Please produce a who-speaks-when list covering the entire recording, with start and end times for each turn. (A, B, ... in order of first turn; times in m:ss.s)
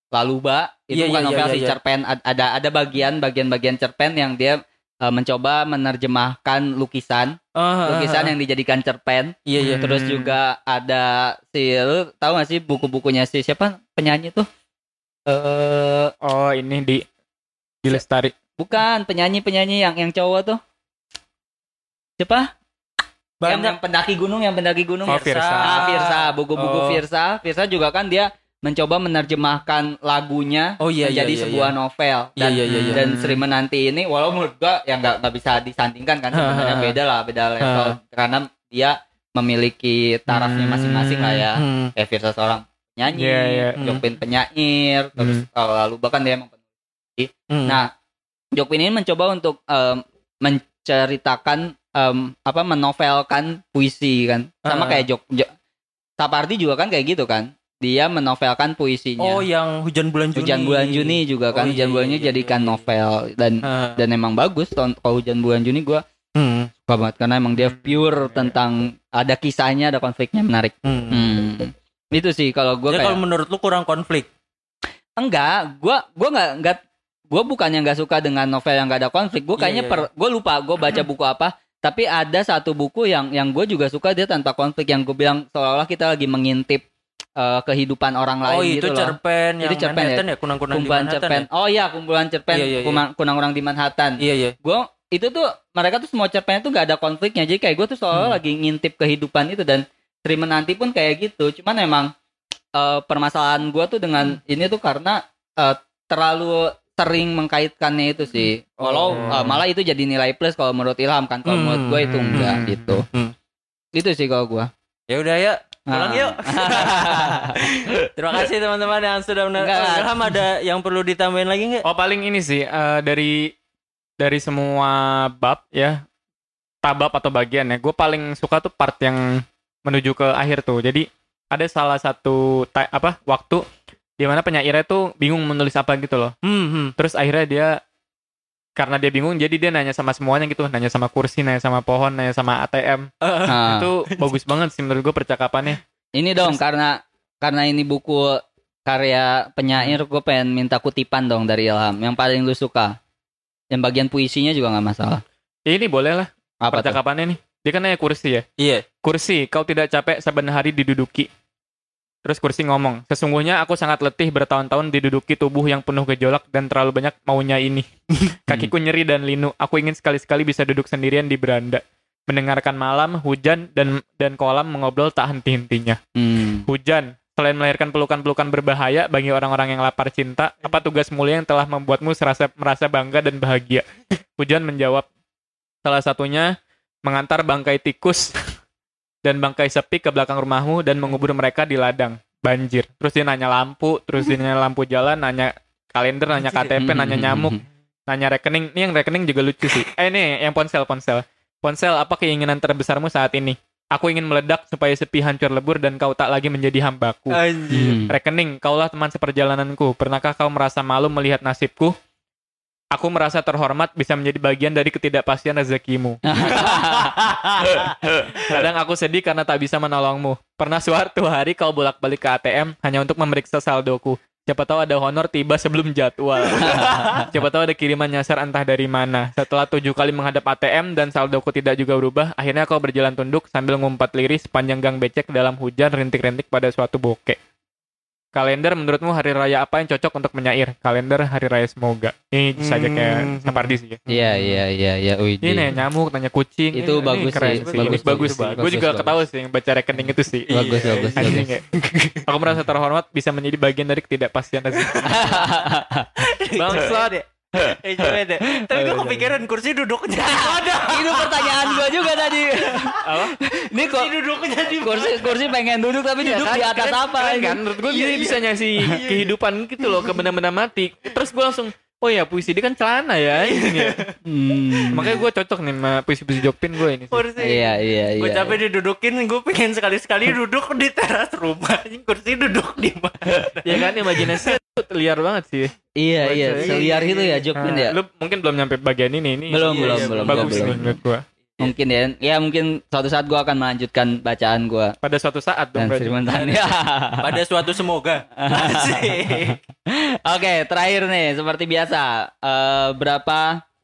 0:00.2-0:14.5 A
0:00.9-0:01.8 B
0:07.6-0:08.3 B
0:09.5-0:10.3 B
0:15.3-0:16.1 A
0:16.2-0:17.1 C
0:17.8-0:18.3 C
0:18.6-0:20.6 A
0:22.2-0:22.5 A
0:23.4-0:23.8 B
0:23.5-0:46.6 A
0:25.1-0:27.0 B
0:25.1-0:25.9 C
0:30.8-0:31.8 B
0:32.4-0:33.0 B
0:32.7-0:33.4 C
0:36.3-0:37.0 B
0:37.6-0:38.0 B
0:40.3-0:41.5 C
0:41.6-0:41.9 B
0:43.1-0:43.8 C
0:43.8-0:44.0 B
0:45.2-0:45.4 C
0:47.2-0:47.9 A
0:47.5-0:47.8 B
0:48.5-0:55.5 A
0:54.7-0:55.1 B
0:56.2-0:59.4 A
0:59.2-1:02.8 B
1:00.4-1:06.0 A
1:03.6-1:04.0 B
1:06.4-1:06.7 B
1:06.9-1:13.2 A
1:07.6-1:08.5 C
1:10.8-1:11.4 B
1:12.9-1:14.3 B
1:15.2-1:16.8 A
1:17.3-1:26.8 A
1:19.6-1:20.1 B
1:27.4-1:42.1 A
1:28.5-1:31.5 B
1:32.5-1:33.0 B
1:34.2-1:34.6 B
1:38.1-1:38.4 B
1:42.8-1:53.0 A
1:49.0-1:49.6 C
1:49.0-1:49.4 B
1:51.5-1:53.3 B
1:52.0-1:53.0 C
1:54.0-1:54.7 A
1:55.1-2:01.8 B
1:55.9-1:58.1 A
1:59.6-2:00.3 A
2:01.8-2:03.5 C
2:04.2-2:06.0 C
2:06.8-2:13.6 C
2:14.2-2:16.4 C
2:16.4-2:17.0 B
2:17.0-2:17.8 C
2:18.8-2:23.1 C
2:23.2-2:24.3 B
2:23.5-2:23.9 A
2:23.6-2:25.8 C
2:26.2-2:33.0 A
2:33.7-2:35.2 A
2:35.7-2:38.4 C
2:36.6-2:37.0 A
2:38.6-2:38.9 B
2:39.0-2:41.3 C
2:42.2-2:47.9 C
2:48.2-2:48.7 B
2:48.5-2:56.0 C
2:56.2-2:56.7 A
2:56.7-3:03.8 C
3:04.4-3:05.1 C
3:05.8-3:06.5 C
3:07.0-3:08.4 C
3:09.2-3:27.4 C
3:16.4-3:16.7 B
3:16.8-3:17.6 A
3:27.3-3:28.0 B
3:27.7-3:28.1 A
3:28.1-3:31.9 C
3:32.9-3:37.0 C
3:36.3-3:37.2 A
3:37.6-3:57.4 C
3:46.6-3:47.3 A
3:46.7-3:47.2 B
3:58.3-4:04.1 C
4:02.6-4:04.2 B
4:04.1-4:05.8 A
4:05.4-4:10.5 C
4:06.7-4:09.2 A
4:07.0-4:08.7 B
4:10.5-4:12.2 B
4:10.5-4:11.5 A
4:11.2-4:11.7 C
4:12.2-4:15.5 C
4:14.8-4:15.5 B
4:15.0-4:16.1 A
4:16.2-4:23.0 B
4:16.6-4:17.8 C
4:18.5-4:19.3 A
4:20.2-4:24.1 A
4:23.0-4:23.4 C
4:23.7-4:25.5 B
4:24.8-4:27.6 A
4:26.2-4:34.0 C
4:27.8-4:30.2 B
4:33.4-4:34.1 B
4:34.3-4:35.2 A
4:34.9-4:37.2 C
4:37.1-4:44.6 B
4:37.4-4:38.6 A
4:43.4-4:45.7 C
4:46.0-4:48.0 A
4:46.2-4:46.8 C
4:46.4-4:47.5 B
4:47.6-4:51.2 C
4:49.5-4:50.9 A
4:49.6-4:50.9 B
4:51.6-4:55.0 A
4:55.0-4:56.7 C
4:55.8-4:57.4 A
4:57.2-4:59.6 B
4:58.4-5:03.6 A